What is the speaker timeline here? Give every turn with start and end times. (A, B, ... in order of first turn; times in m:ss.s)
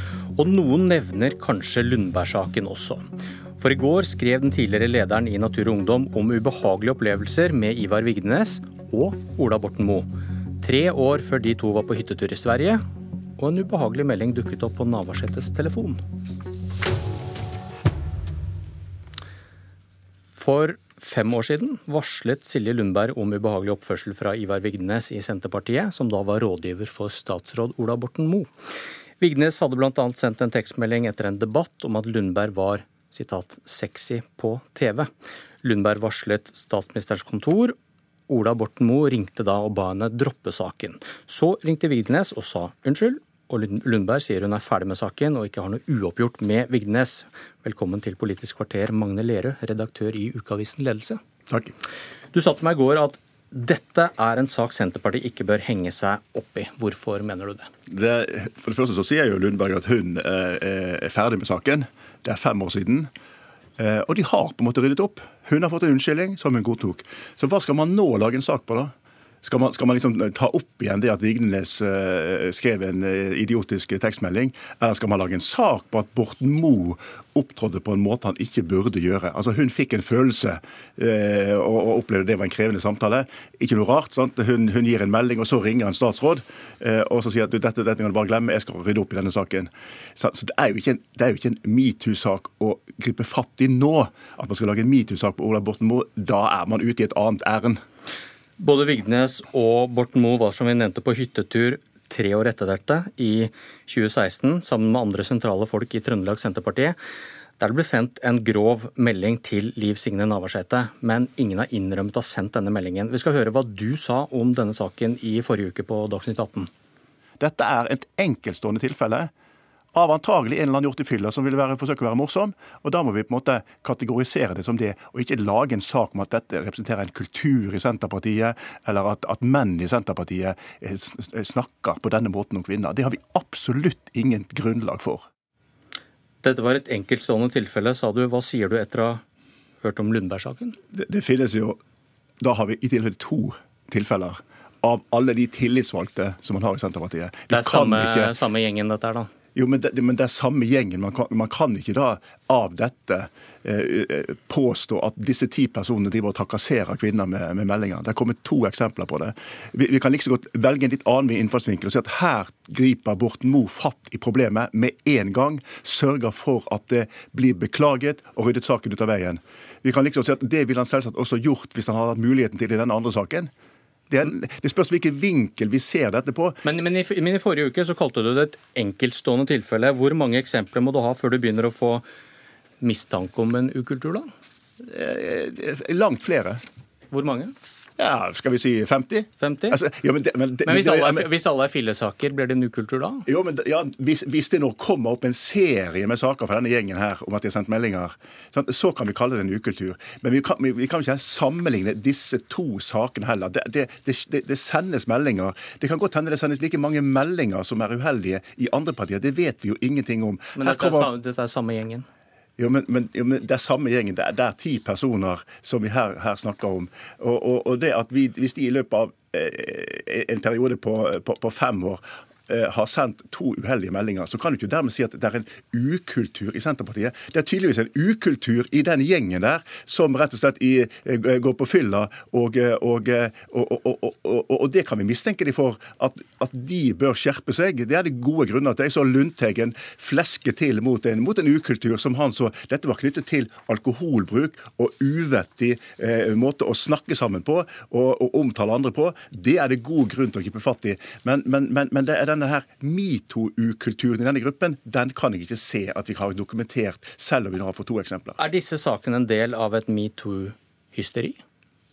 0:00.3-0:03.0 A
0:03.6-0:12.8 A
0:13.4-0:16.0 A
0:20.3-0:28.5 A
0:29.2-0:35.1 A
0:35.6-0:37.7 A
0:38.3-0:51.2 A
0:52.3-0:57.7 A
0:57.9-1:03.1 B
1:03.8-1:08.9 B
1:09.4-1:37.8 B
1:38.6-1:47.0 A
1:47.6-1:56.7 A
1:57.4-1:59.3 B
1:59.9-2:15.2 B
2:16.4-2:19.2 A
2:19.8-2:20.8 A
2:20.9-2:21.8 B
2:22.4-2:28.3 B
2:27.5-2:29.3 A
2:29.5-2:53.5 B
2:54.1-2:56.6 B
2:56.6-3:02.0 A
3:02.8-3:04.3 A
3:04.8-3:06.6 B
3:07.1-3:07.5 A
3:08.0-3:11.3 B
3:09.4-3:09.8 A
3:10.6-3:13.2 A
3:13.2-3:31.1 B
3:30.6-3:32.0 A
3:32.6-4:18.4 B
4:18.4-4:21.4 A